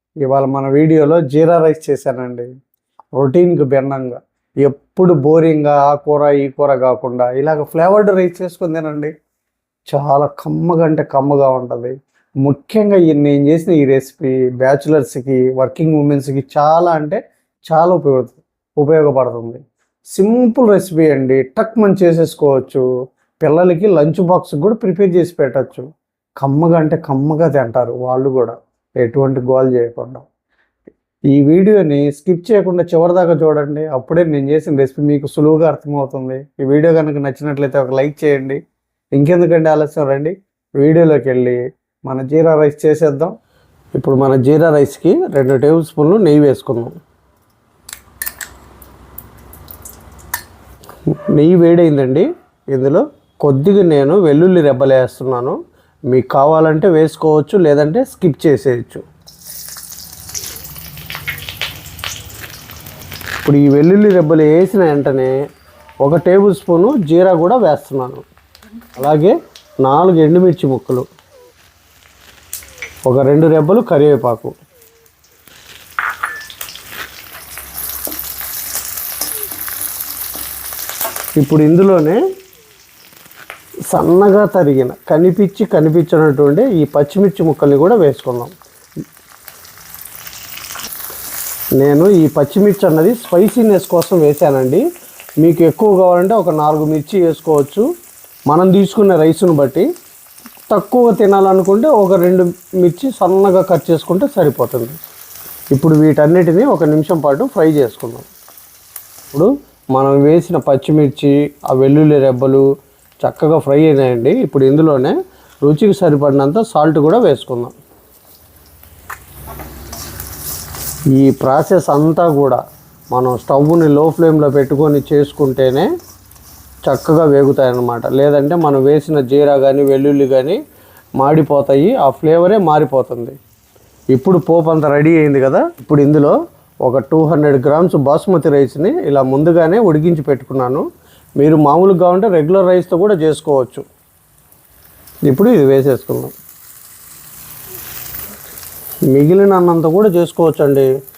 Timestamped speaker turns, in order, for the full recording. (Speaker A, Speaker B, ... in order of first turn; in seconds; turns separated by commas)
Speaker A: 0.2-2.5, Speaker A: 3.1-9.1, Speaker A: 9.9-19.6, Speaker A: 20.1-22.8, Speaker A: 23.4-25.9, Speaker A: 26.4-30.2, Speaker A: 31.3-38.6, Speaker A: 39.1-43.3, Speaker A: 43.9-46.9, Speaker A: 51.1-55.6, Speaker A: 56.1-59.0, Speaker A: 63.4-65.3, Speaker A: 66.0-68.2, Speaker A: 69.0-71.1, Speaker A: 73.0-74.5, Speaker A: 81.4-82.2, Speaker A: 83.9-88.5, Speaker A: 91.8-94.8, Speaker A: 95.4-97.8, Speaker A: 98.5-99.8, Speaker A: 100.7-105.0, Speaker A: 105.7-108.3, Speaker A: 109.3-112.6, Speaker A: 113.2-117.7, Speaker A: 121.2-122.6, Speaker A: 123.1-125.9, Speaker A: 126.8-130.6, Speaker A: 131.2-133.3, Speaker A: 134.1-140.8, Speaker A: 141.4-143.8, Speaker A: 145.3-146.3, Speaker A: 149.1-150.9